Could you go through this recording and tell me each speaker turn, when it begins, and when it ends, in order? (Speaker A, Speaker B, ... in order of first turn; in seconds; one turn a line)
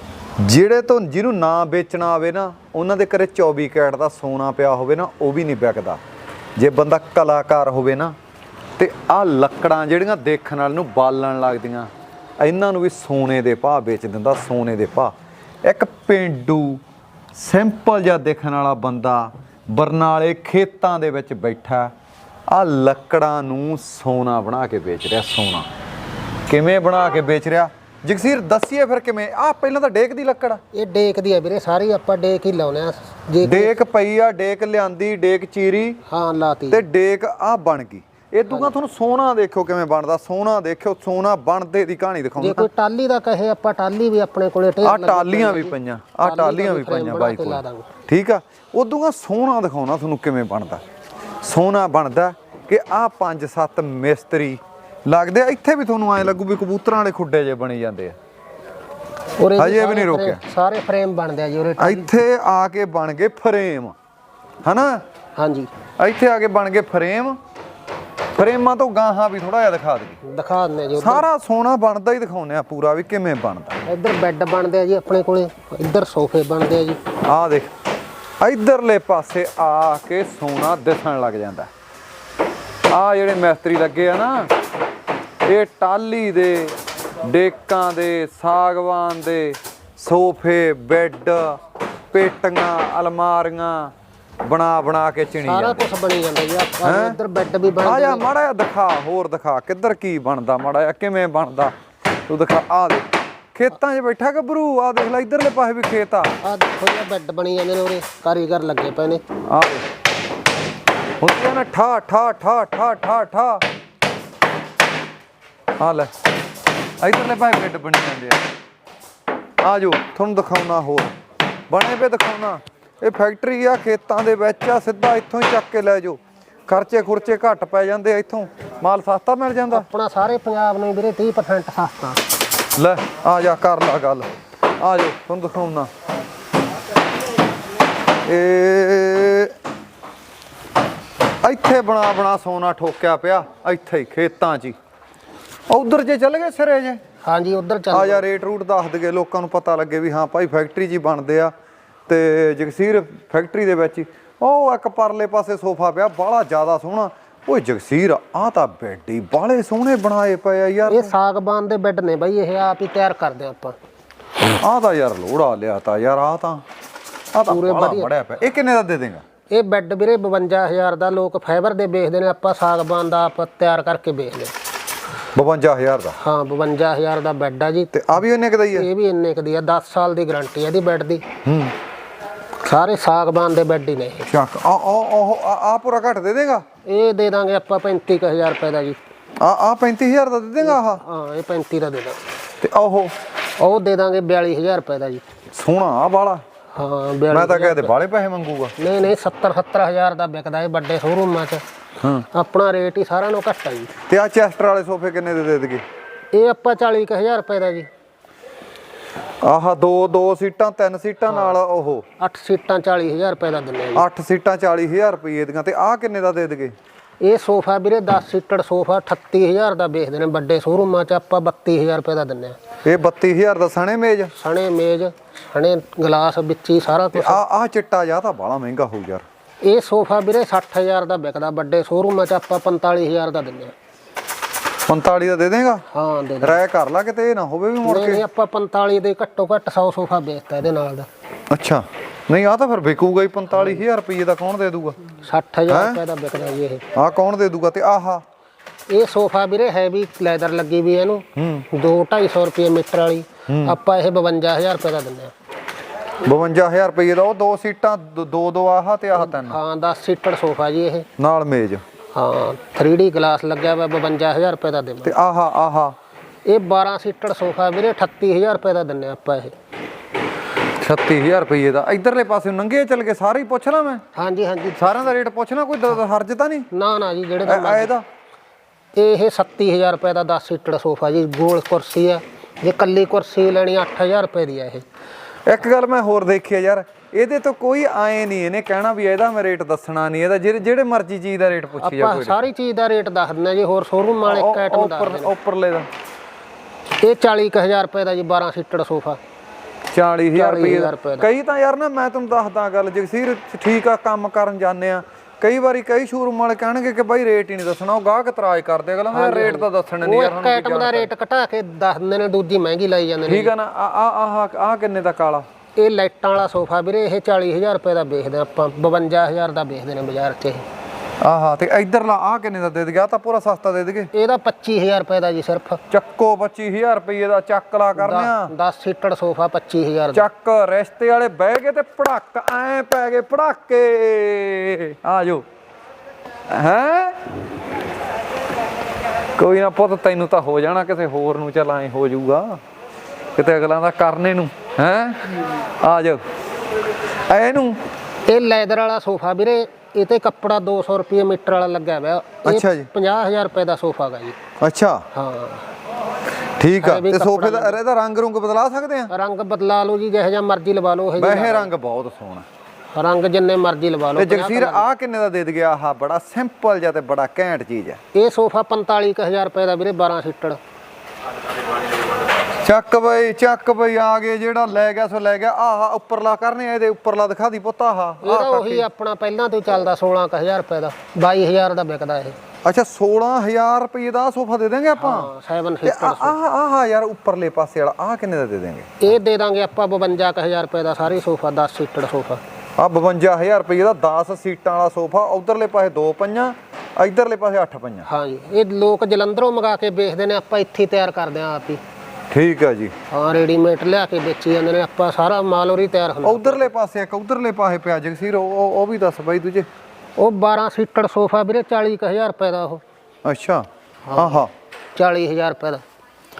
Speaker A: 0.4-6.0
Speaker A: 6.6-8.1
Speaker A: 8.8-15.1
Speaker A: 15.7-16.8
Speaker A: 17.3-21.9
Speaker A: 22.5-25.7
Speaker A: 26.5-30.6
Speaker B: 30.7-33.7
Speaker A: 33.4-36.0
Speaker B: 36.1-36.8
Speaker A: 36.7-42.7
Speaker B: 42.4-47.9
Speaker A: 44.8-50.8
Speaker A: 51.4-58.1
Speaker B: 59.4-62.1
Speaker A: 59.6-60.4
Speaker A: 61.8-63.9
Speaker A: 64.6-65.0
Speaker B: 65.4-65.7
Speaker A: 66.0-67.4
Speaker A: 68.3-70.2
Speaker B: 70.2-71.3
Speaker A: 71.0-73.8
Speaker B: 73.8-77.0
Speaker A: 77.2-77.7
Speaker A: 78.4-81.7
Speaker A: 82.9-84.5
Speaker A: 85.4-91.6
Speaker A: 92.1-93.9
Speaker A: 94.4-95.9
Speaker B: 95.4-98.3
Speaker A: 96.8-97.2
Speaker A: 97.8-101.7
Speaker A: 102.3-106.3
Speaker B: 106.4-109.2
Speaker A: 109.5-109.8
Speaker A: 111.2-113.6
Speaker A: 115.8-116.1
Speaker A: 117.0-118.4
Speaker A: 119.6-121.1
Speaker A: 121.7-129.8
Speaker B: 129.7-132.2
Speaker A: 132.8-135.9
Speaker A: 138.2-139.5
Speaker A: 141.4-144.8
Speaker A: 145.7-147.0
Speaker B: 147.2-148.3
Speaker A: 147.9-151.5
Speaker A: 152.1-161.1
Speaker B: 160.9-163.7
Speaker A: 164.5-166.6
Speaker A: 167.3-169.2
Speaker B: 167.5-168.1
Speaker B: 169.5-174.5
Speaker A: 175.3-176.1
Speaker B: 176.2-177.9
Speaker A: 177.9-178.9
Speaker B: 178.7-181.2
Speaker A: 181.4-181.7
Speaker B: 182.6-184.3
Speaker A: 184.3-186.6
Speaker B: 186.8-189.0
Speaker A: 189.4-191.0
Speaker B: 190.6-192.2
Speaker A: 192.6-193.1
Speaker B: 193.6-195.2
Speaker A: 195.5-196.4
Speaker B: 196.7-197.9
Speaker A: 197.3-198.7
Speaker B: 198.8-201.6
Speaker B: 202.3-203.9
Speaker A: 204.1-205.8
Speaker B: 206.3-207.9
Speaker A: 209.4-212.1
Speaker B: 211.3-211.5
Speaker B: 212.2-214.1
Speaker A: 213.9-216.7
Speaker B: 217.2-222.6
Speaker A: 222.8-224.3
Speaker B: 224.3-227.4
Speaker A: 227.1-229.2
Speaker B: 229.6-233.7
Speaker A: 234.9-235.8
Speaker B: 235.9-236.6
Speaker A: 236.4-238.2
Speaker B: 237.8-241.1
Speaker A: 241.5-245.0
Speaker B: 243.5-243.8
Speaker B: 245.2-246.8
Speaker A: 245.7-246.0
Speaker A: 246.9-248.2
Speaker B: 248.9-255.3
Speaker A: 251.3-251.6
Speaker A: 253.5-253.8
Speaker A: 256.2-259.6
Speaker B: 259.1-261.1
Speaker A: 261.2-261.8
Speaker B: 262.1-265.1
Speaker A: 265.0-265.9
Speaker B: 266.4-269.5
Speaker A: 270.8-274.0
Speaker B: 274.1-275.1
Speaker A: 274.8-276.7
Speaker B: 276.7-277.9
Speaker A: 277.4-278.0
Speaker B: 278.9-284.8
Speaker A: 285.5-292.4
Speaker B: 291.8-295.3
Speaker A: 294.2-295.9
Speaker B: 297.0-299.2
Speaker A: 299.9-311.1
Speaker B: 300.3-301.3
Speaker B: 309.1-313.5
Speaker A: 313.3-315.4
Speaker B: 315.8-320.6
Speaker A: 321.2-324.1
Speaker B: 324.1-325.8
Speaker A: 325.9-328.5
Speaker B: 328.0-330.2
Speaker A: 330.1-335.4
Speaker A: 336.5-337.3
Speaker A: 339.4-342.6
Speaker A: 343.4-346.2
Speaker A: 347.2-347.8
Speaker B: 348.3-354.4
Speaker A: 352.4-352.9
Speaker A: 354.6-355.0
Speaker B: 355.1-355.7
Speaker A: 356.6-359.1
Speaker B: 356.8-357.8
Speaker B: 359.1-361.7
Speaker A: 361.2-362.4
Speaker B: 362.9-364.9
Speaker A: 364.1-368.0
Speaker B: 368.1-370.6
Speaker A: 372.6-378.9
Speaker B: 378.2-382.4
Speaker A: 382.6-385.3
Speaker B: 385.0-386.4
Speaker A: 385.8-389.0
Speaker B: 389.0-392.4
Speaker A: 392.8-398.1
Speaker B: 398.1-401.8
Speaker A: 402.3-402.9
Speaker B: 403.1-406.7
Speaker A: 406.2-409.7
Speaker B: 410.2-412.8
Speaker A: 413.2-414.5
Speaker B: 414.1-414.4
Speaker B: 414.9-415.8